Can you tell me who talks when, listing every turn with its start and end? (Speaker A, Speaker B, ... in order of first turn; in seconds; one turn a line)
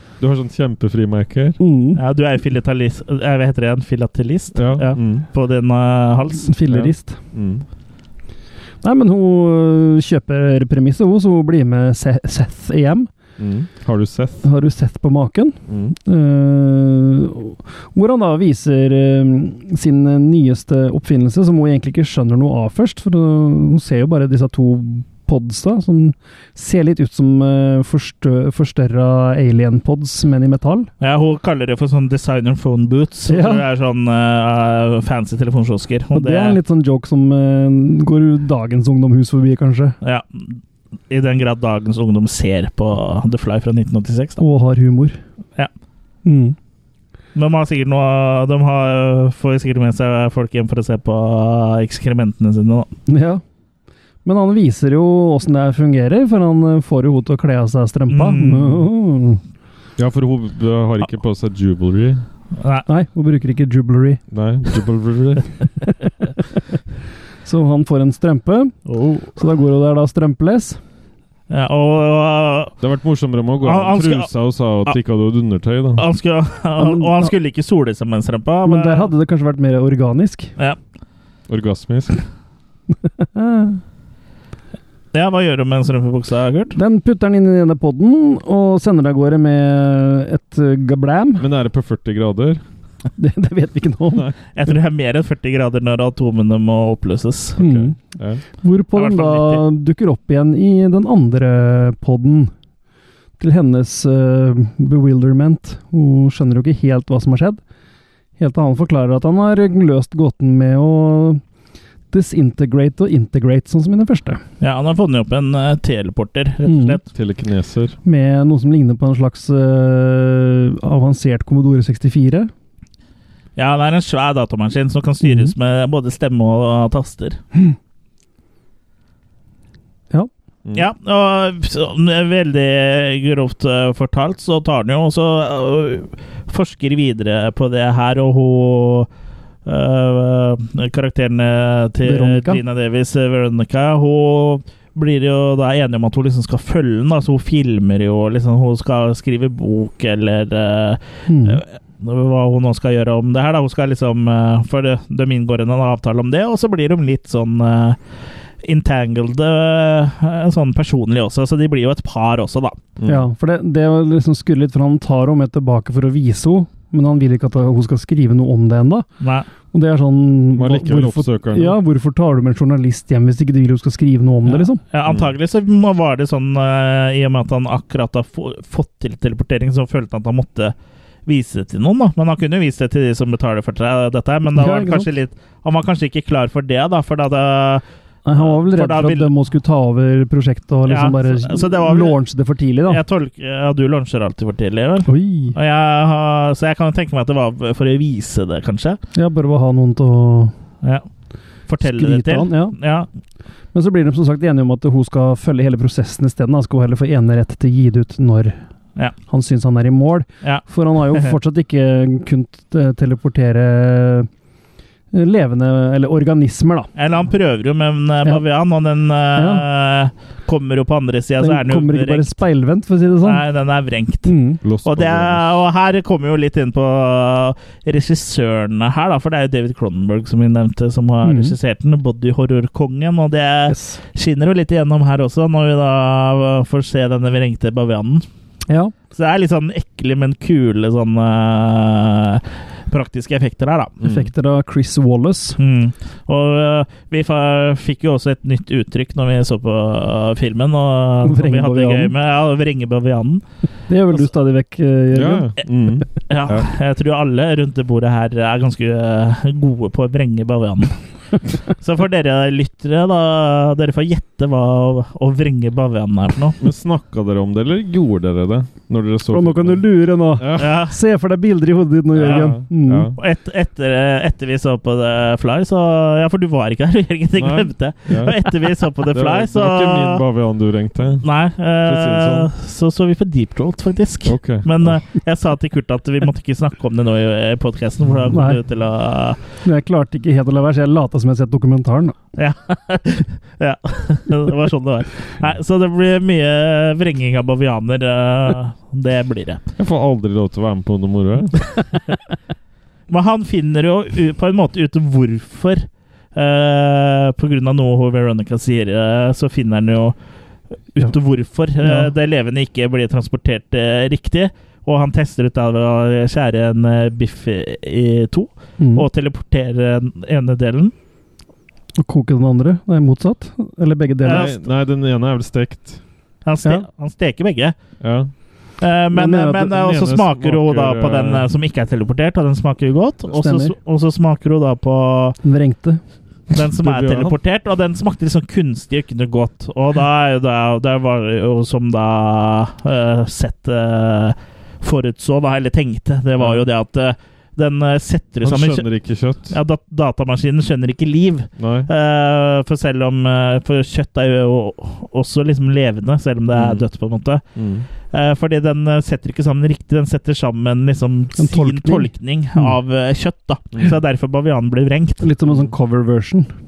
Speaker A: 0.2-1.6
Speaker B: 1.6-2.0
Speaker C: 2.0-6.5
Speaker A: 4.5-5.3
Speaker B: 6.4-7.2
Speaker A: 6.7-7.7
Speaker B: 8.8-13.1
Speaker A: 13.4-14.5
Speaker B: 14.4-30.9
Speaker A: 15.7-15.9
Speaker C: 31.0-36.6
Speaker B: 33.3-33.6
Speaker B: 36.1-40.0
Speaker C: 40.0-44.4
Speaker B: 44.4-45.2
Speaker B: 46.2-46.6
Speaker C: 47.4-52.9
Speaker B: 53.1-53.4
Speaker B: 54.2-59.4
Speaker C: 58.1-58.8
Speaker A: 60.0-62.2
Speaker C: 62.6-62.9
Speaker B: 62.9-64.2
Speaker A: 64.3-65.5
Speaker B: 67.5-68.8
Speaker C: 68.9-69.3
Speaker B: 69.4-70.8
Speaker C: 71.5-72.7
Speaker A: 72.8-76.0
Speaker C: 73.6-74.3
Speaker C: 76.0-79.1
Speaker B: 76.8-77.3
Speaker B: 78.7-80.5
Speaker A: 81.5-82.2
Speaker B: 83.2-83.8
Speaker C: 85.1-86.8
Speaker B: 86.8-91.5
Speaker A: 91.4-92.6
Speaker B: 93.2-94.3
Speaker C: 94.5-97.6
Speaker B: 97.6-98.0
Speaker A: 97.6-98.4
Speaker B: 98.6-102.5
Speaker C: 99.0-99.6
Speaker B: 103.4-107.6
Speaker B: 108.4-111.4
Speaker B: 112.1-114.4
Speaker C: 114.6-117.0
Speaker B: 116.7-117.0
Speaker A: 117.1-118.0
Speaker B: 118.0-122.5
Speaker C: 123.6-127.4
Speaker B: 125.2-125.5
Speaker C: 130.7-139.1
Speaker C: 139.7-158.0
Speaker B: 142.0-142.6
Speaker B: 151.3-151.6
Speaker C: 158.6-162.8
Speaker A: 163.0-163.3
Speaker B: 163.1-169.1
Speaker C: 169.2-169.5
Speaker B: 169.7-174.8
Speaker A: 170.6-171.8
Speaker C: 174.5-180.7
Speaker A: 175.1-175.3
Speaker C: 181.3-187.8
Speaker B: 184.6-185.1
Speaker B: 188.3-193.0
Speaker C: 188.4-189.3
Speaker C: 190.9-192.2
Speaker C: 192.9-199.0
Speaker B: 195.1-195.6
Speaker B: 199.2-200.5
Speaker C: 201.7-203.1
Speaker B: 201.8-202.8
Speaker B: 203.7-208.6
Speaker B: 209.3-214.3
Speaker C: 210.4-211.3
Speaker B: 215.1-216.9
Speaker C: 217.0-222.4
Speaker B: 219.4-219.7
Speaker B: 221.4-223.4
Speaker C: 223.2-224.3
Speaker B: 224.2-224.6
Speaker A: 224.6-225.6
Speaker C: 224.8-238.2
Speaker B: 231.2-231.6
Speaker B: 233.7-234.0
Speaker B: 238.7-238.9
Speaker C: 239.1-243.9
Speaker A: 244.0-244.3
Speaker B: 244.0-245.6
Speaker C: 245.6-253.4
Speaker B: 251.2-252.1
Speaker B: 253.9-255.5
Speaker A: 255.1-256.7
Speaker C: 256.3-260.9
Speaker C: 261.7-266.6
Speaker A: 266.6-270.8
Speaker B: 269.3-273.1
Speaker C: 270.6-270.9
Speaker A: 272.1-273.2
Speaker C: 272.2-272.5
Speaker C: 273.2-280.2
Speaker A: 277.4-278.4
Speaker A: 279.1-281.3
Speaker C: 281.2-289.4
Speaker A: 281.8-282.5
Speaker A: 284.2-285.0
Speaker B: 288.3-288.6
Speaker B: 289.6-292.2
Speaker C: 292.4-299.6
Speaker A: 299.8-301.6
Speaker C: 303.1-310.1
Speaker C: 310.9-320.9
Speaker B: 311.8-312.1
Speaker B: 318.8-319.1
Speaker B: 322.0-324.5
Speaker C: 324.2-324.5
Speaker A: 324.3-326.0
Speaker C: 326.4-327.8
Speaker A: 328.0-328.3
Speaker C: 328.8-335.4
Speaker B: 329.1-329.7
Speaker A: 329.7-331.5
Speaker B: 333.3-333.7
Speaker B: 335.4-336.0
Speaker C: 336.5-348.9
Speaker A: 336.8-337.4
Speaker A: 346.4-346.6
Speaker A: 348.4-349.6
Speaker C: 349.5-357.4
Speaker A: 351.6-351.9
Speaker A: 356.5-356.9
Speaker A: 357.6-357.9
Speaker C: 358.1-365.2
Speaker B: 361.4-362.8
Speaker B: 365.2-366.5